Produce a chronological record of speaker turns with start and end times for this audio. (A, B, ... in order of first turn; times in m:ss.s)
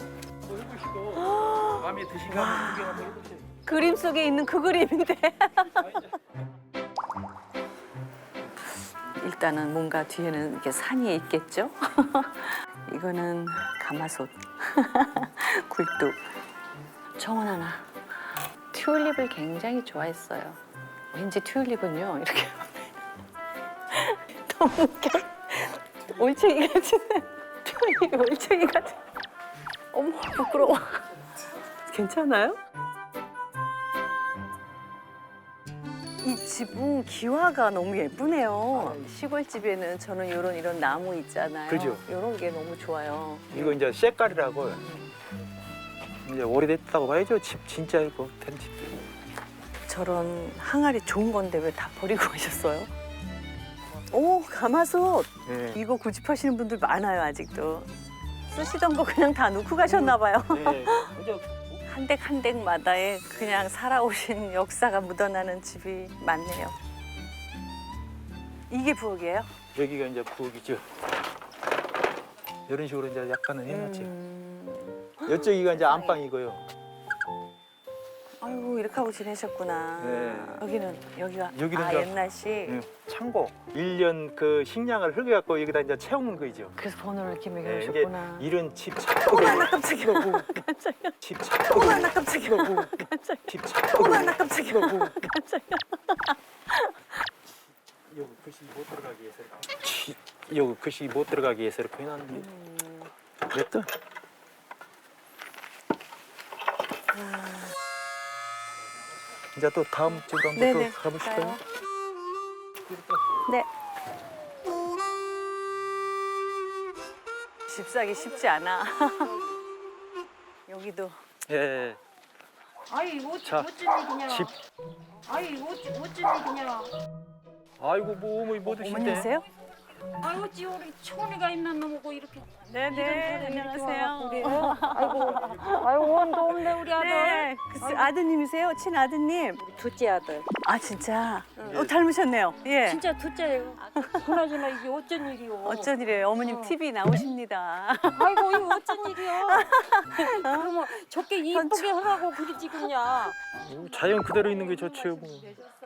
0:00.5-0:03.6 A
0:01.2-0:03.1 B
0:03.6-0:06.0 B
0:09.1-0:16.2 B
0:17.2-0:17.9 B
0:18.7-0:20.6 B
0:21.1-0:23.0 B
0:23.9-0:29.0 B
0:29.9-0:31.1 B
0:31.9-0:32.6 B
0:36.2-0:43.8 B
0:38.7-0:39.0 A
0:41.7-0:42.0 A
0:43.5-0:44.8 A
0:44.8-0:45.1 B
0:46.2-0:49.0 A
0:49.9-0:52.9 B
0:54.1-0:57.9 B
0:55.4-0:55.8 A
0:58.5-1:01.1 B
0:59.9-1:01.7 A
1:01.8-1:06.8 B
1:08.7-1:09.5 B
1:09.7-1:10.8 A
1:12.7-1:14.1 A
1:13.7-1:16.2 B
1:15.2-1:16.6 A
1:18.4-1:22.8 B
1:20.0-1:20.6 A
1:21.5-1:26.8 A
1:26.8-1:28.5 B
1:27.6-1:30.6 A
1:29.3-1:31.1 B
1:31.2-1:35.1 A
1:31.7-1:36.9 B
1:38.1-1:42.4 A
1:42.3-1:43.1 B
1:43.5-1:43.9 A
1:47.1-1:47.7 B
1:49.5-1:51.6 A
1:50.5-1:51.6 B
1:52.9-1:53.2 A
1:57.7-1:59.4 B
2:00.7-2:01.2 B
2:01.5-2:02.0 A
2:02.9-2:04.5 C
2:03.4-2:03.7 A
2:05.3-2:06.9 C
2:07.8-2:09.3 A
2:08.6-2:09.5 B
2:10.2-2:18.1 C
2:12.6-2:19.6 B
2:19.6-2:20.5 C
2:20.6-2:23.0 B
2:21.7-2:21.9 A
2:22.8-2:26.7 C
2:23.8-2:24.3 B
2:25.6-2:30.7 B
2:28.1-2:33.3 C
2:31.4-2:32.8 B
2:33.6-2:35.5 A